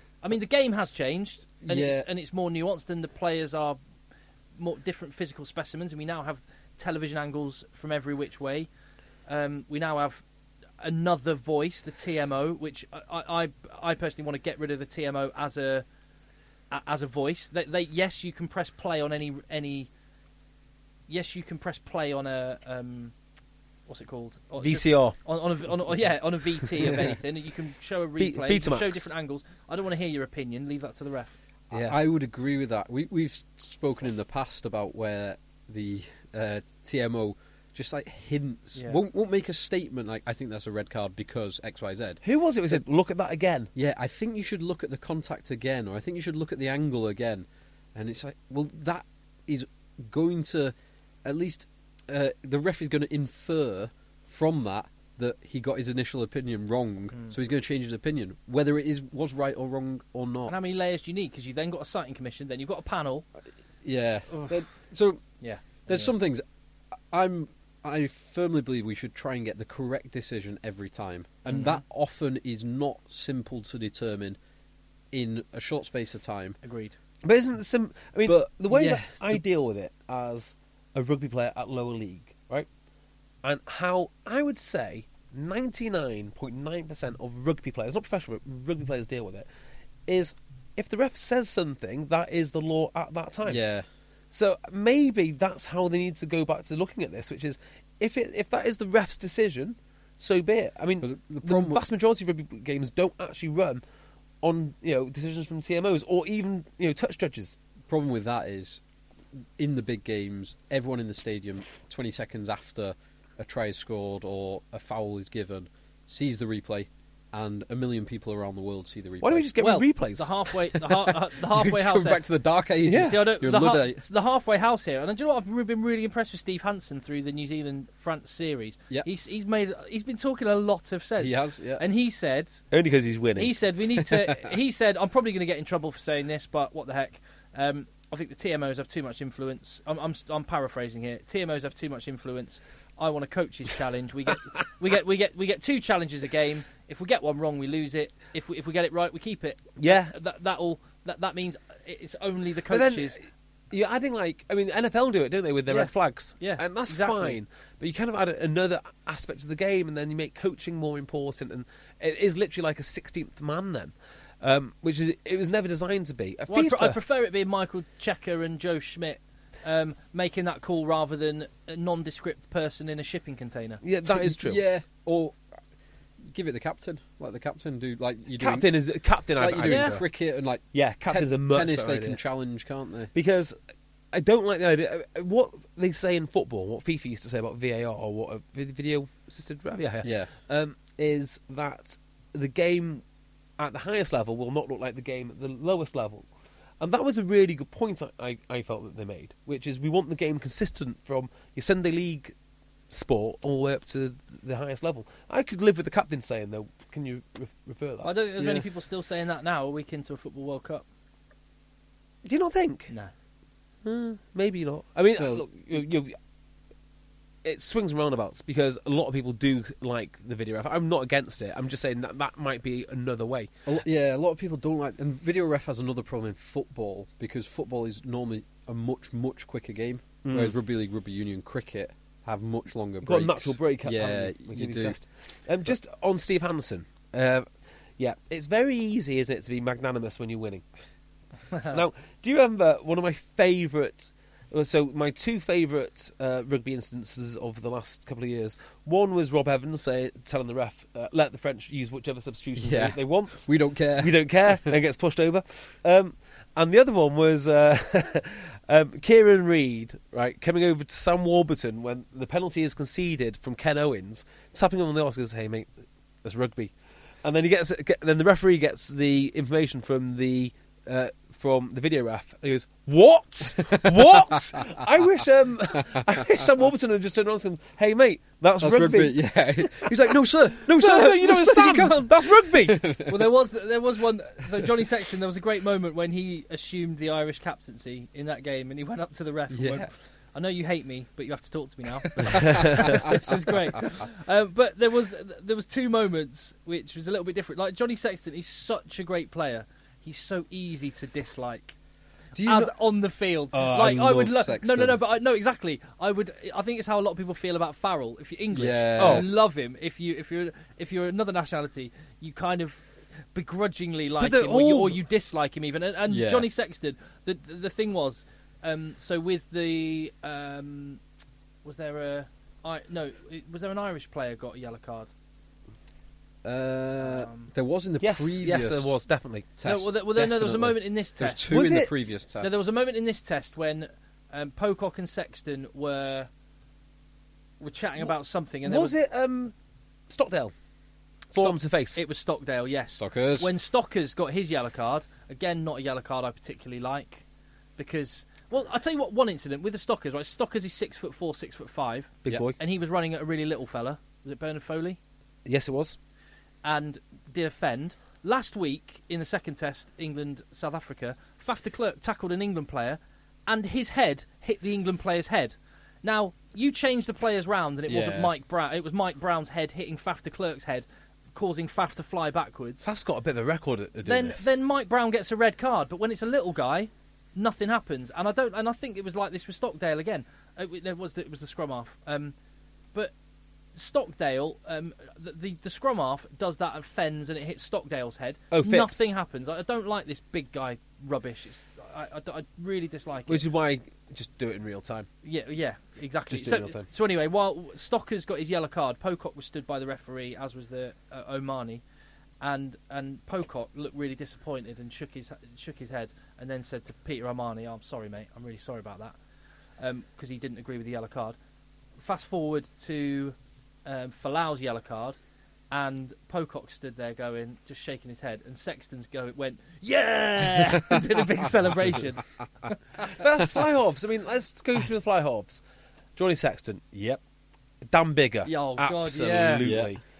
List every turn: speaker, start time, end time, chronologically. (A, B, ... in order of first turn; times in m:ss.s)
0:00.2-0:03.8 A
0:01.6-0:02.1 B
0:04.6-0:08.7 A
0:09.3-0:10.2 A
0:10.8-0:15.8 A
0:16.7-0:19.9 A
0:21.1-0:23.1 A
0:23.9-0:31.4 A
0:24.6-0:25.2 C
0:28.2-0:29.1 C
0:31.7-0:32.0 C
0:31.7-0:42.8 B
0:42.2-0:43.7 C
0:43.8-1:00.6 B
1:00.5-1:03.3 A
1:03.8-1:05.2 B
1:05.4-1:06.1 A
1:05.9-1:06.4 B
1:07.1-1:14.4 B
1:11.4-1:11.8 A
1:15.1-1:16.6 B
1:16.6-1:17.0 A
1:17.2-1:22.7 C
1:18.3-1:19.4 B
1:23.4-1:29.5 C
1:30.1-1:33.6 C
1:33.4-1:33.9 B
1:34.3-1:43.8 C
1:41.0-1:41.8 B
1:44.4-1:47.6 C
1:47.9-1:48.8 B
1:49.6-1:59.5 B
1:59.2-2:00.3 C
1:59.6-2:02.2 A
2:01.1-2:04.0 B
2:02.8-2:03.2 C
2:02.9-2:12.6 A
2:11.2-2:11.8 B
2:12.7-2:13.5 C
2:13.4-2:33.2 A
2:29.8-2:30.2 C
2:32.7-2:47.0 C
2:35.7-2:37.4 A
2:46.5-2:53.8 A
2:53.8-2:54.6 C
2:54.1-2:55.4 B
2:56.2-2:58.7 B
2:58.4-3:00.0 C
2:59.4-3:03.1 B
2:59.6-3:00.0 A
3:00.7-3:02.2 C
3:03.1-3:03.6 C
3:04.1-3:13.0 C
3:10.0-3:10.3 B
3:13.6-3:16.3 C
3:16.8-3:22.3 C
3:22.9-3:28.1 C
3:28.0-3:30.8 A
3:28.4-3:28.7 B
3:32.2-3:32.9 C
3:33.8-3:36.2 C
3:35.2-3:35.5 B
3:37.4-3:43.5 C
3:43.7-3:55.0 B
3:50.2-3:50.6 C
3:53.0-3:57.5 C
3:58.0-4:00.6 C
4:01.6-4:25.7 C
4:12.6-4:14.7 B
4:26.2-4:42.8 C
4:38.6-4:43.3 B
4:43.0-5:01.8 A
4:49.5-4:49.9 B
4:52.2-4:54.0 B
4:52.2-4:53.1 C
5:02.4-5:02.7 B
5:02.4-5:21.0 A
5:03.5-5:05.0 B
5:08.5-5:09.3 B
5:09.0-5:09.3 C
5:14.2-5:15.0 C
5:16.1-5:16.5 B
5:21.6-5:25.1 A
5:26.4-5:29.0 B
5:27.0-5:27.5 A
5:28.0-5:29.5 C
5:29.6-5:32.7 B
5:29.6-5:31.5 A
5:31.5-5:31.9 C
5:32.4-5:36.3 A
5:37.6-5:39.0 A
5:38.6-5:39.5 C
5:40.1-5:40.5 C
5:41.3-5:42.0 C
5:41.4-5:47.2 A
5:43.0-5:43.5 B
5:47.8-5:55.0 A
5:52.2-5:52.6 C
5:55.4-5:56.0 C
5:56.6-6:12.9 A
6:07.9-6:08.3 B
6:12.8-6:14.5 C
6:14.0-6:22.3 A
6:23.7-6:33.4 A
6:28.5-6:29.1 C
6:33.3-6:35.1 C
6:35.2-6:41.8 A
6:36.3-6:36.9 C
6:42.4-6:49.2 A
6:49.8-6:51.4 A
6:52.0-6:55.2 A
6:55.7-7:02.7 A
7:03.0-7:05.6 C
7:06.2-7:07.2 C
7:07.8-7:10.0 C
7:08.4-7:09.7 A
7:09.6-7:09.9 B